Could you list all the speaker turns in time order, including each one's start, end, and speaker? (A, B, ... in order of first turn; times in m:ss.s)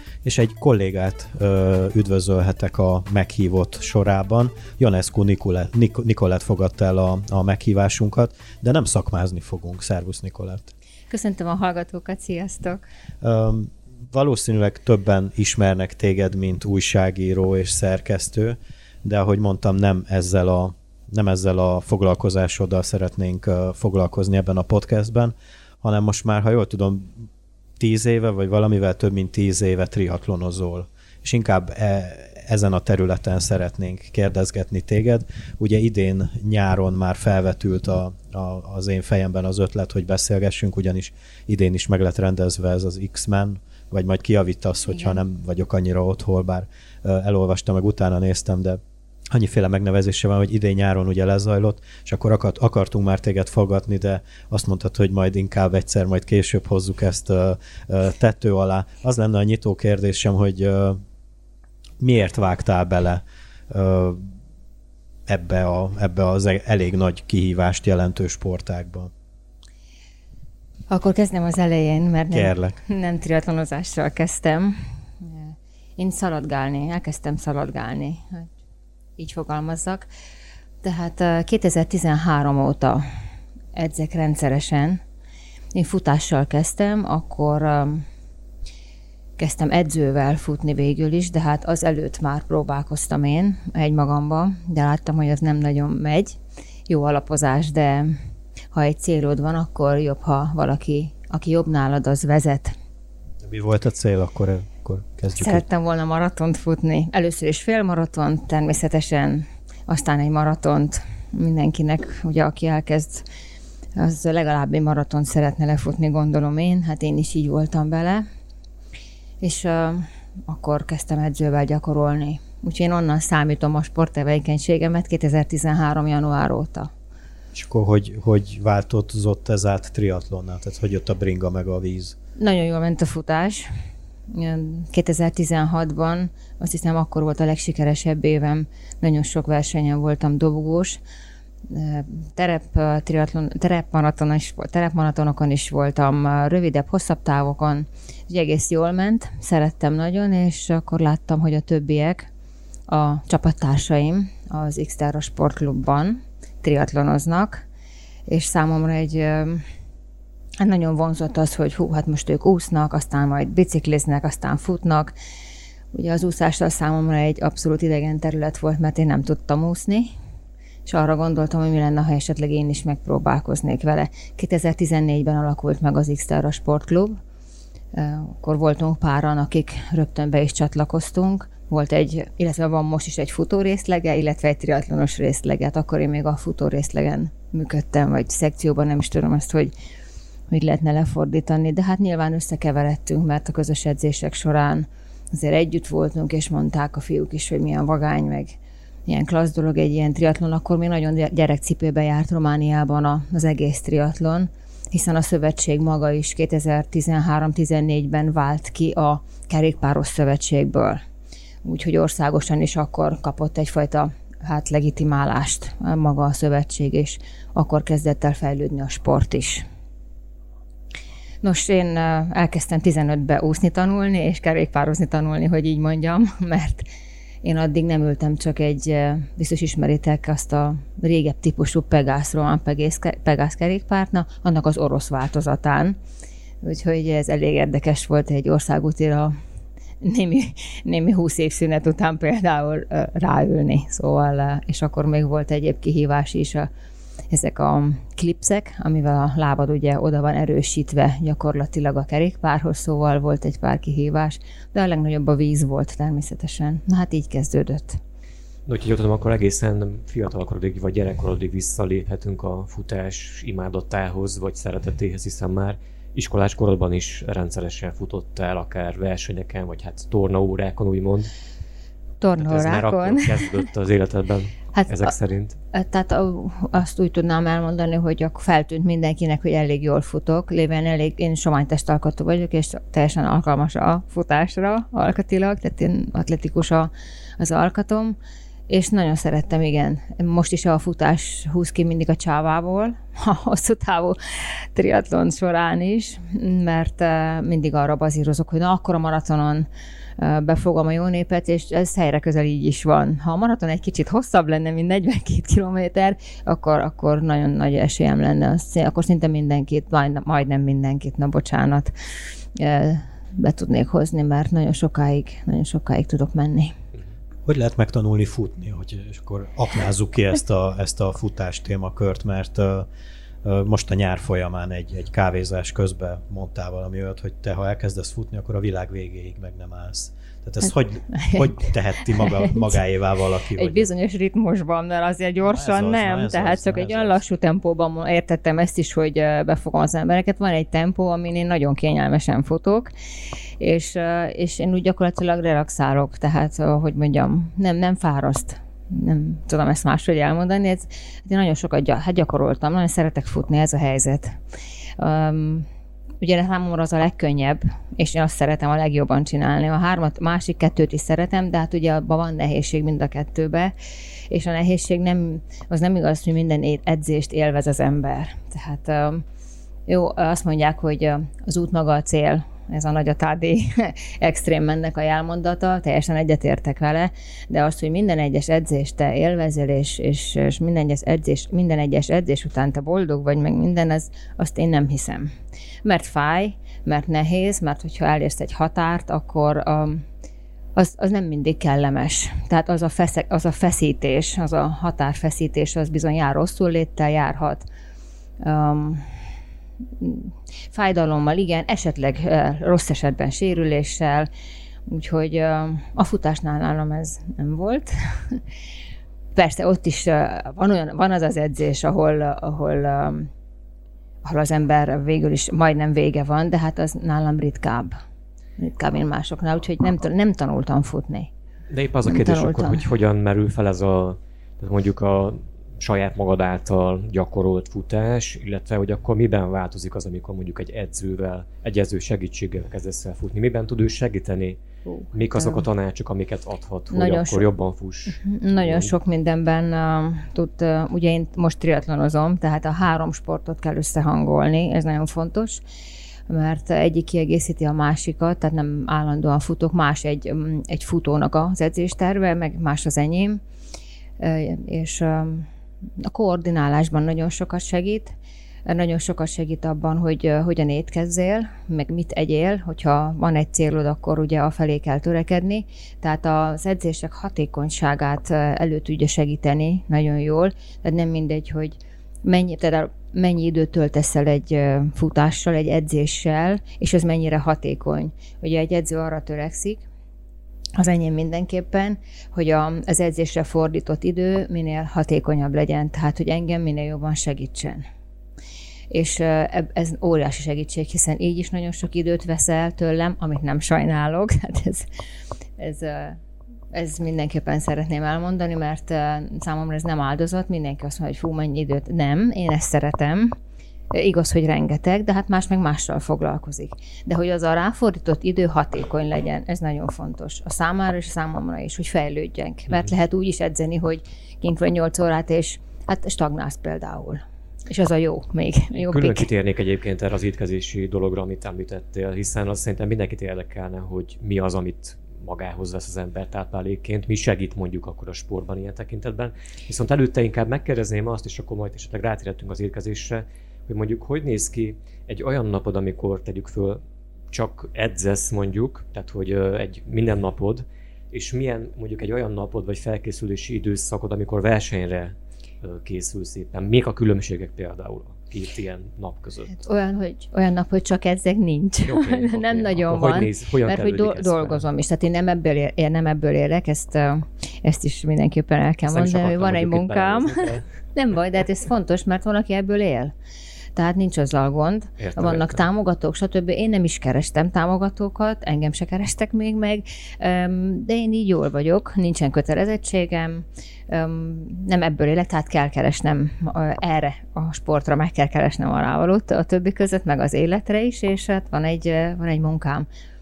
0:00.2-0:10.7 A
0:11.1-0:12.8 B
0:13.2-0:27.2 A
0:27.8-0:48.8 A
0:49.3-1:01.0 A
1:02.0-1:04.3 A
1:05.3-1:09.1 A
1:10.9-1:18.5 B
1:12.3-1:12.8 A
1:19.2-1:20.1 B
1:20.8-1:23.0 B
1:23.7-1:25.0 B
1:25.7-1:28.0 B
1:29.4-1:38.1 B
1:38.7-1:42.7 B
1:43.4-1:45.6 A
1:45.3-1:53.3 B
1:54.0-1:58.2 B
1:59.4-2:06.9 B
2:07.5-2:12.2 A
2:12.4-2:13.7 B
2:14.3-2:21.0 B
2:21.7-2:32.3 B
2:32.9-2:37.6 B
2:38.3-2:39.6 B
2:40.6-2:45.1 B
2:45.9-2:50.1 B
2:50.8-2:57.2 B
2:57.9-3:09.7 B
3:10.5-3:31.0 B
3:31.6-3:39.6 B
3:41.4-3:46.9 B
3:47.4-3:56.0 B
3:56.6-3:59.3 B
4:00.0-4:06.7 B
4:07.3-4:18.0 B
4:18.7-4:31.3 C
4:32.2-4:33.5 B
4:32.4-4:35.6 C
4:34.7-4:35.1 B
4:35.7-4:48.2 B
4:48.7-4:59.7 B
5:00.2-5:11.9 B
5:12.5-5:16.8 B
5:17.4-5:22.9 A
5:23.4-5:33.9 A
5:31.1-5:31.4 B
5:32.2-5:32.8 B
5:33.5-5:42.9 B
5:35.4-5:37.2 A
5:43.6-5:54.4 B
5:55.0-5:55.7 B
5:56.2-6:03.7 B
6:04.3-6:09.2 B
6:09.9-6:25.3 B
6:25.8-6:30.0 B
6:30.8-6:37.6 B
6:38.4-6:39.0 B
6:40.0-6:44.3 B
6:44.9-6:48.4 B
6:49.3-6:53.3 B
6:54.2-6:58.0 B
6:58.6-7:01.3 B
7:01.7-7:14.6 C
7:02.0-7:02.8 B
7:14.8-7:15.6 B
7:15.1-7:18.9 C
7:16.9-7:17.5 B
7:18.1-7:25.6 B
7:26.3-7:33.4 B
7:34.2-7:35.5 B
7:36.0-7:38.1 B
7:38.6-7:59.8 B
8:00.8-8:07.8 B
8:08.9-8:14.8 B
8:15.6-8:16.2 B
8:16.7-8:23.4 B
8:23.9-8:39.3 B
8:38.7-9:09.6 C
9:09.5-9:23.1 B
9:11.8-9:14.6 C
9:18.9-9:20.6 C
9:23.8-9:42.9 B
9:25.0-9:25.6 C